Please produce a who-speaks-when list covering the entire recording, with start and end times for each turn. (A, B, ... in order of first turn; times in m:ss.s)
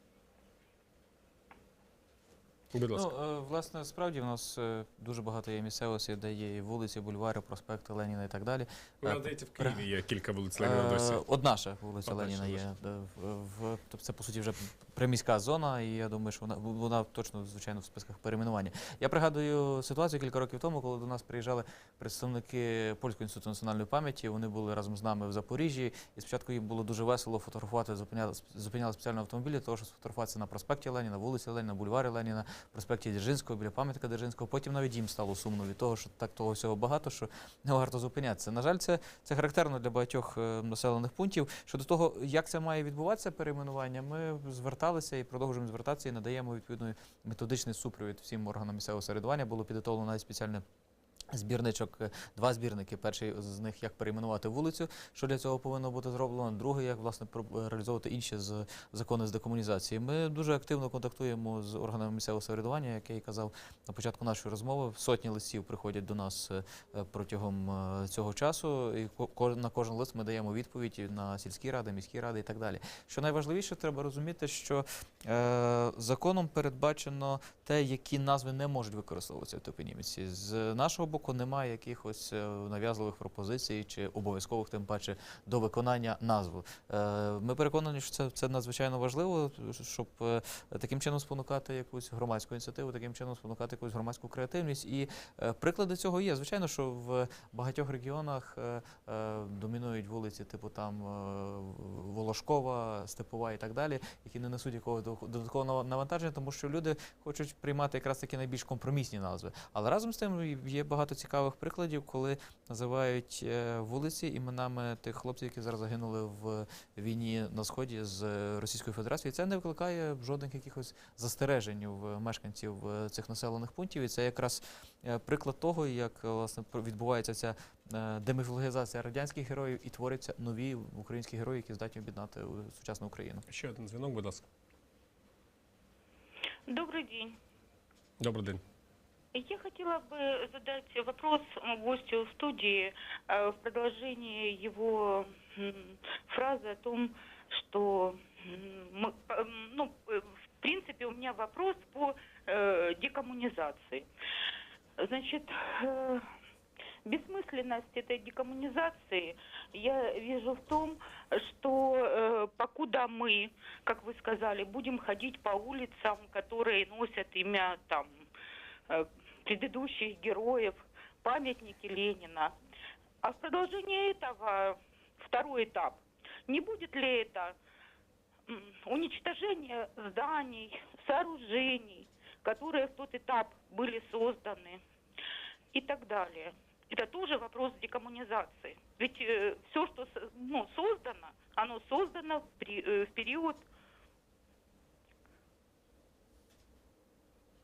0:02.7-0:03.1 A
0:02.9-0:09.8 B
0:09.0-0:11.2 A
0:10.6-0:50.6 B
0:12.1-0:12.6 A
0:51.3-2:13.4 B
2:13.5-2:14.4 A
2:16.7-2:17.4 C
2:18.2-2:18.6 A
2:19.3-2:34.1 C
2:35.0-2:36.2 C
2:37.1-2:48.1 C
2:48.9-2:52.5 C
2:53.2-2:57.6 C
2:58.5-3:04.8 C
3:05.7-3:13.6 C